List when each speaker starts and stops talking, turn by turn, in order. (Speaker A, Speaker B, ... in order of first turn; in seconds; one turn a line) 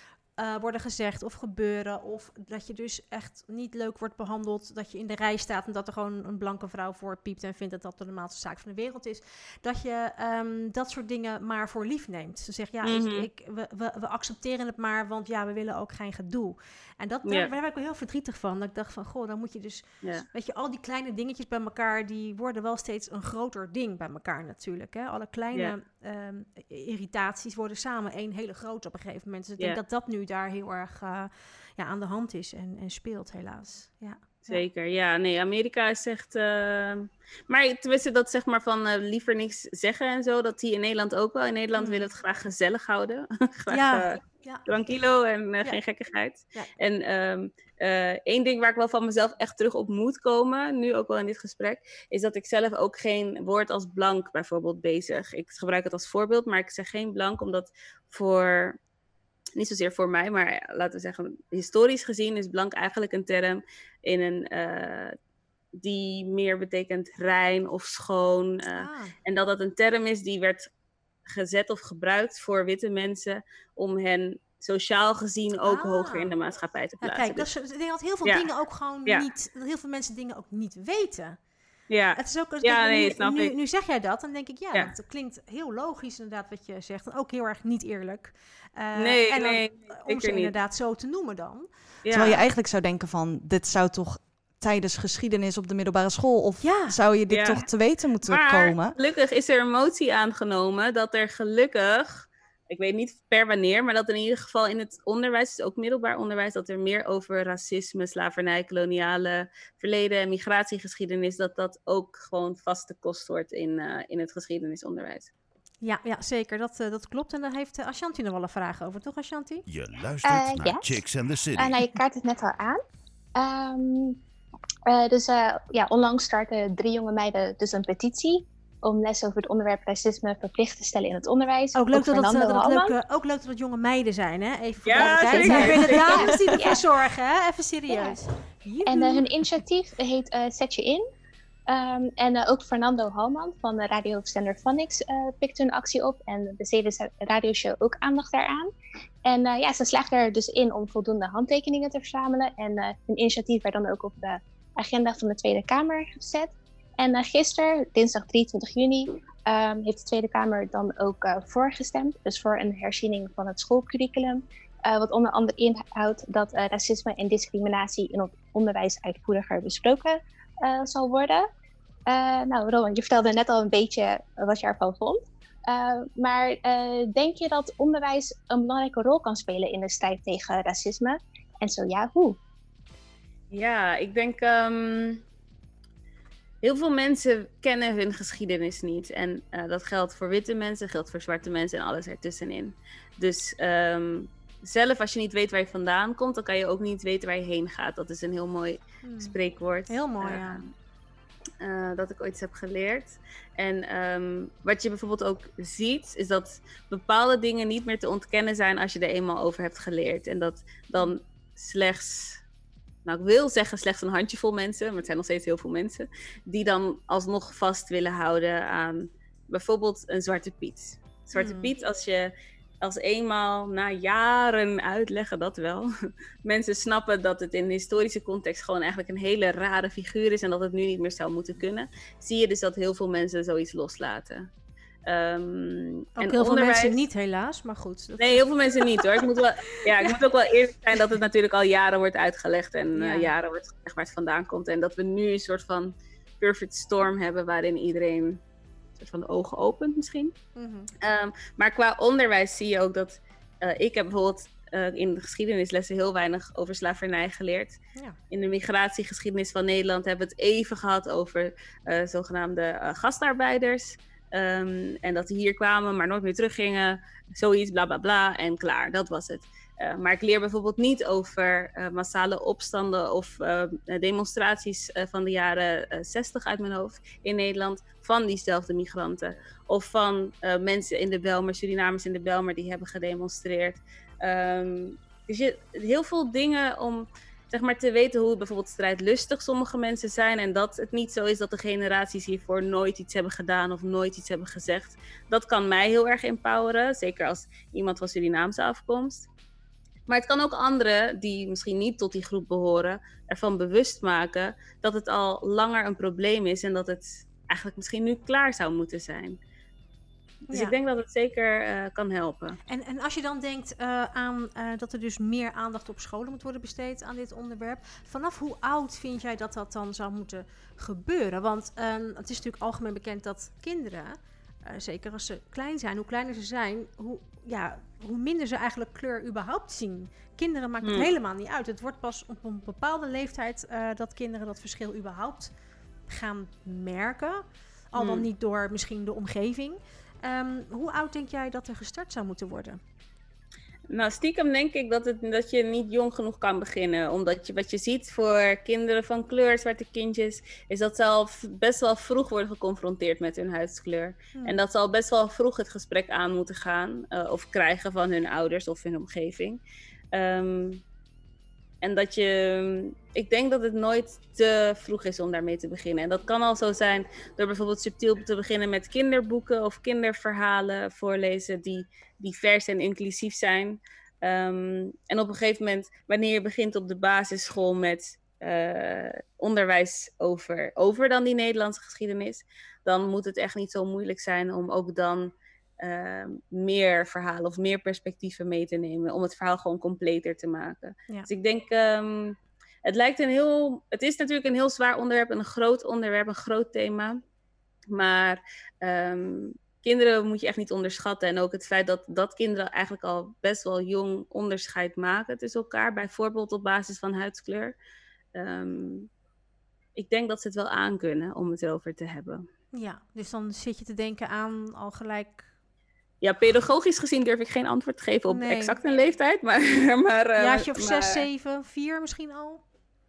Speaker A: 0.4-34.6
Speaker B: 12.8-13.3
Speaker B: 17.2-17.5
Speaker B: 34.5-58.8
Speaker A: 41.8-42.1
Speaker A: 43.7-44.6
Speaker B: 59.6-65.2
Speaker B: 65.8-70.7
Speaker A: 68.8-69.1
Speaker B: 71.3-77.5
Speaker A: 75.7-76.3
Speaker A: 77.0-81.4
Speaker B: 81.9-83.5
Speaker A: 82.2-91.7
Speaker B: 89.0-90.6
Speaker B: 92.0-92.4
Speaker C: 92.1-99.0
Speaker A: 96.6-97.0
Speaker B: 97.3-97.7
Speaker B: 98.2-115.3
Speaker A: 115.8-119.6
Speaker D: 119.7-121.9
Speaker E: 120.2-121.0
Speaker E: 121.6-122.8
Speaker E: 123.4-124.2
Speaker E: 124.9-133.0
Speaker A: 131.8-139.3
Speaker B: 134.8-136.3
Speaker E: 135.0-136.8
Speaker E: 137.9-138.2
Speaker E: 138.9-141.0
Speaker E: 141.7-148.7
Speaker E: 149.2-171.5
Speaker E: 172.1-182.4
Speaker B: 183.5-185.2
Speaker B: 186.6-200.7
Speaker A: 199.0-199.4
Speaker A: 199.9-200.6
Speaker B: 201.6-212.4
Speaker B: 213.1-234.5
Speaker A: 221.3-221.7
Speaker B: 235.1-237.0
Speaker A: 236.2-239.2
Speaker B: 238.2-248.4
Speaker A: 239.8-240.1
Speaker A: 242.9-243.3
Speaker B: 249.0-250.3
Speaker A: 250.6-250.9
Speaker B: 251.0-257.8
Speaker B: 258.3-299.2
Speaker B: 300.1-309.4
Speaker A: 310.5-310.8
Speaker B: 310.5-312.6
Speaker A: 312.7-335.5
Speaker B: 330.8-331.1
Speaker A: 336.1-342.8
Speaker B: 338.0-338.3
Speaker B: 343.9-359.6
Speaker B: 360.1-360.8
Speaker B: 361.8-397.2
Speaker B: 397.9-407.8
Speaker B: 408.4-409.1
Speaker B: 410.0-412.4
Speaker A: 412.7-415.5
Speaker B: 416.2-421.2
Speaker A: 418.3-418.8
Speaker A: 420.4-422.6